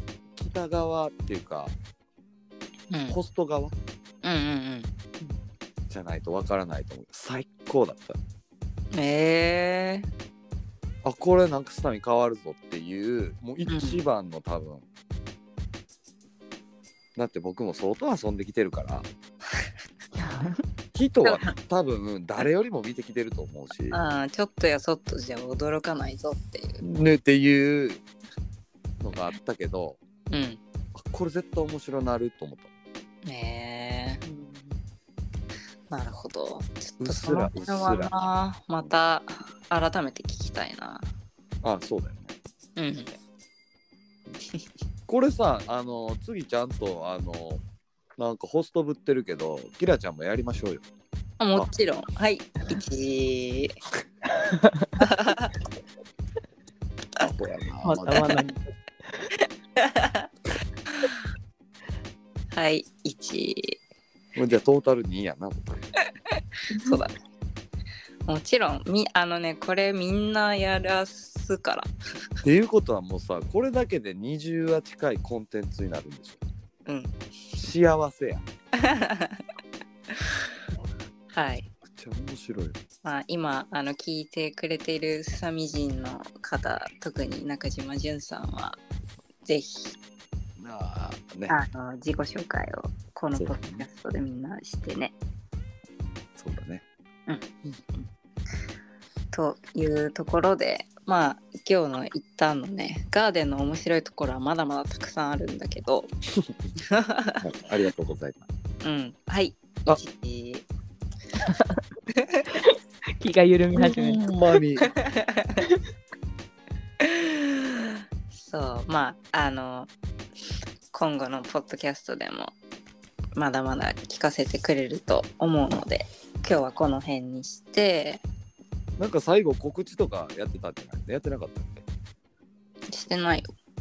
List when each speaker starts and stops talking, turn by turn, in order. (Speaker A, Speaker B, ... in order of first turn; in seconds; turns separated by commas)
Speaker A: 0.4-1.8, Speaker B: 2.9-3.2, Speaker A: 3.1-3.7, Speaker B: 4.2-4.9, Speaker A: 5.9-8.2, Speaker B: 8.9-10.1, Speaker A: 11.0-14.8, Speaker B: 13.7-14.0, Speaker A: 17.1-19.1, Speaker C: 20.1-20.6, Speaker A: 20.9-24.0, Speaker B: 21.2-21.5, Speaker B: 23.9-26.8, Speaker A: 26.8-28.0, Speaker A: 29.0-30.0, Speaker B: 30.3-30.6, Speaker A: 30.9-32.7, Speaker B: 33.2-34.2, Speaker C: 34.2-34.8, Speaker B: 35.9-41.1, Speaker A: 37.0-38.3, Speaker A: 41.6-42.3, Speaker B: 42.8-43.2, Speaker A: 45.1-47.6, Speaker A: 48.2-50.8, Speaker B: 51.4-53.7, Speaker C: 54.3-54.9, Speaker B: 55.0-55.5, Speaker A: 57.2-58.3, Speaker C: 57.8-59.3, Speaker B: 59.8-60.3, Speaker B: 62.5-63.8, Speaker A: 64.3-65.9, Speaker B: 66.7-67.1, Speaker B: 68.3-71.9, Speaker A: 72.4-76.4, Speaker B: 76.8-77.1, Speaker A: 77.6-78.4, Speaker B: 78.8-79.4, Speaker B: 81.3-81.7, Speaker A: 81.8-82.8, Speaker B: 83.0-88.8, Speaker B: 89.4-90.0, Speaker A: 90.6-91.6, Speaker B: 91.5-95.1, Speaker A: 93.3-93.8, Speaker A: 96.4-96.8, Speaker B: 99.3-106.1, Speaker B: 106.9-107.4, Speaker A: 107.4-108.4, Speaker B: 108.8-110.6, Speaker C: 111.4-111.8, Speaker B: 112.2-112.5, Speaker C: 112.5-114.6, Speaker A: 113.8-114.9, Speaker B: 114.9-115.6, Speaker B: 117.0-119.9, Speaker B: 120.9-122.5, Speaker B: 123.3-128.2, Speaker A: 129.0-131.8, Speaker B: 132.9-133.5